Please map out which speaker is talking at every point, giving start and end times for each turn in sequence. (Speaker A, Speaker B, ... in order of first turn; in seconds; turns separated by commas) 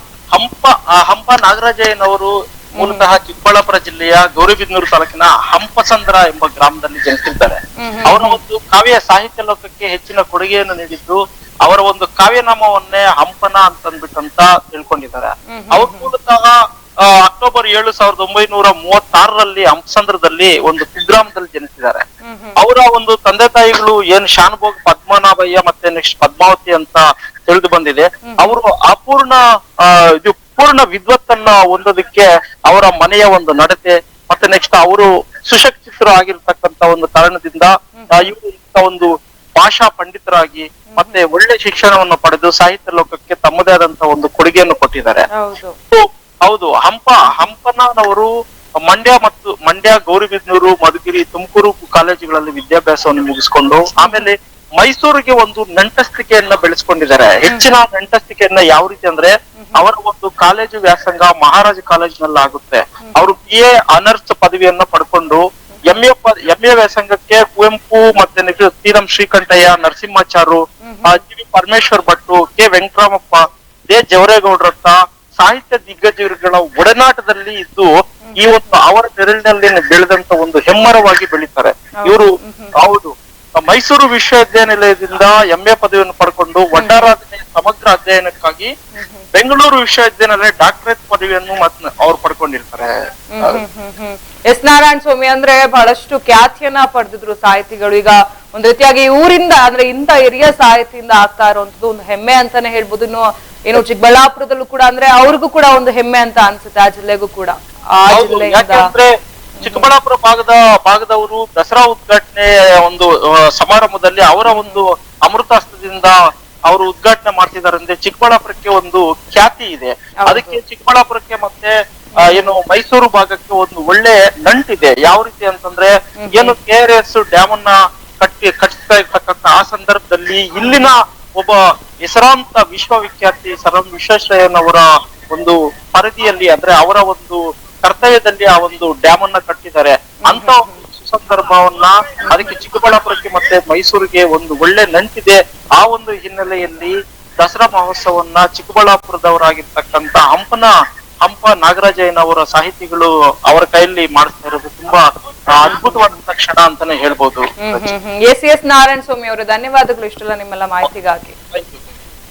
Speaker A: 0.3-22.0, Speaker B: 2.8-3.1, Speaker B: 7.8-8.4, Speaker B: 15.5-16.1, Speaker B: 22.2-22.6, Speaker A: 22.6-45.2, Speaker B: 28.2-28.6, Speaker B: 37.9-38.3, Speaker B: 40.9-41.2, Speaker B: 45.4-45.7, Speaker A: 45.9-48.3, Speaker A: 48.8-88.7, Speaker B: 54.0-54.3, Speaker B: 59.5-59.8, Speaker B: 63.0-63.4, Speaker B: 65.7-66.0, Speaker B: 70.8-71.2, Speaker B: 78.2-78.8, Speaker B: 82.0-82.7, Speaker B: 86.8-87.1, Speaker B: 88.9-89.3, Speaker A: 89.3-93.6, Speaker B: 93.3-108.9, Speaker A: 108.1-109.1, Speaker B: 109.6-109.9, Speaker A: 109.6-116.1, Speaker B: 114.5-114.8, Speaker A: 116.7-121.7, Speaker B: 120.2-120.6, Speaker B: 122.1-122.5, Speaker A: 122.3-150.7, Speaker B: 126.2-126.5, Speaker B: 130.6-130.9, Speaker B: 140.2-140.8, Speaker B: 142.3-142.5, Speaker A: 151.2-157.9, Speaker B: 155.7-156.0, Speaker B: 157.6-161.3